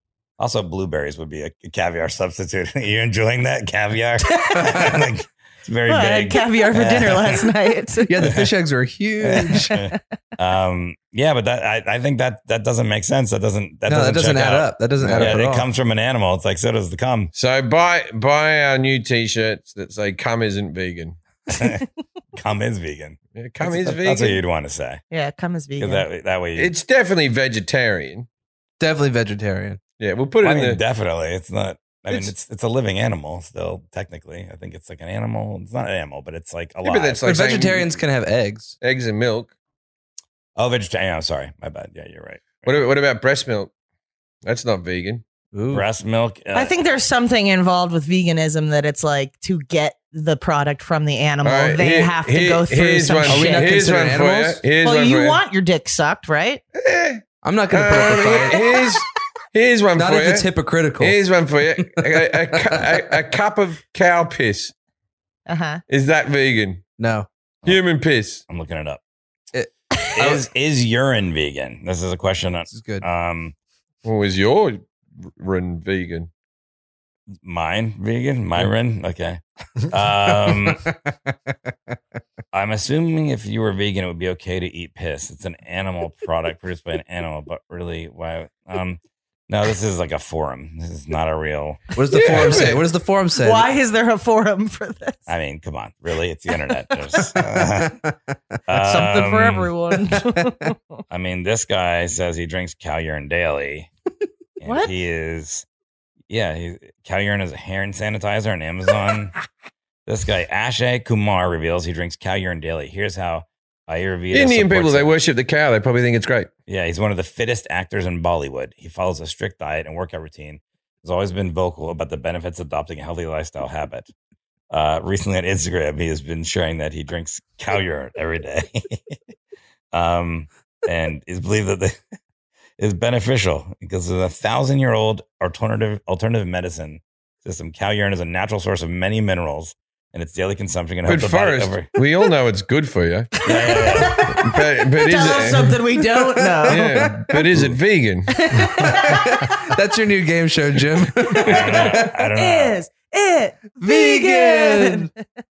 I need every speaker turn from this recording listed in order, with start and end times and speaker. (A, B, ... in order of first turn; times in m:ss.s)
0:00.4-0:07.5 A
0:04.3-0:04.9 B
0:05.9-0:08.3 B
0:08.0-0:09.7 C
0:08.2-0:08.5 A
0:09.2-0:17.3 A
0:13.8-0:15.7 C
0:15.0-0:15.3 D
0:17.3-0:21.2 D
0:21.5-0:21.8 A
0:22.3-0:25.0 A
0:23.3-0:24.4 D
0:25.1-0:26.1 B
0:25.8-0:26.7 A
0:26.6-0:28.3 D
0:28.8-0:29.8 C
0:30.0-0:30.8 D
0:30.4-0:37.3 A
0:36.8-0:38.0 D
0:37.2-0:38.7 C
0:38.8-0:39.5 D
0:40.6-0:42.8 A
0:42.6-0:43.7 D
0:44.4-0:45.2 D
0:45.5-0:45.8 C
0:45.7-0:46.7 A
0:46.5-0:53.8 B
0:51.4-0:55.4 D
0:53.2-0:54.6 C
0:54.8-0:56.6 B
0:56.8-1:00.5 D
0:57.4-0:58.6 C
0:59.9-1:01.2 C
1:01.0-1:04.7 D
1:01.8-1:02.2 C
1:05.5-1:05.8 B
1:05.9-1:06.8 D
1:07.0-1:07.3 C
1:07.6-1:08.4 D
1:08.5-1:09.0 A
1:09.5-1:10.4 C
1:10.2-1:13.5 A
1:12.7-1:13.0 C
1:14.0-1:16.3 D
1:17.4-1:20.8 A
1:20.4-1:20.9 C
1:22.5-1:32.8 A
1:31.9-1:33.7 C
1:32.1-1:32.8 D
1:33.4-1:35.2 B
1:35.3-1:38.0 A
1:38.7-1:39.7 A
1:38.8-1:40.7 B
1:41.1-1:43.9 A
1:44.6-1:45.6 A
1:44.6-1:44.9 B
1:46.3-1:49.3 A
1:50.1-1:55.1 A
1:54.3-1:56.5 D
1:56.7-2:04.1 A
2:04.7-2:09.0 A
2:09.9-2:12.0 A
2:12.8-2:21.9 A
2:21.0-2:23.3 D
2:23.4-2:27.1 B
2:23.4-2:24.3 A
2:24.3-2:25.7 D
2:25.3-2:26.0 C
2:26.6-2:27.4 C
2:26.7-2:28.4 D
2:28.3-2:29.5 B
2:28.6-2:32.1 C
2:31.3-2:35.2 B
2:31.4-2:32.8 A
2:33.8-2:35.1 C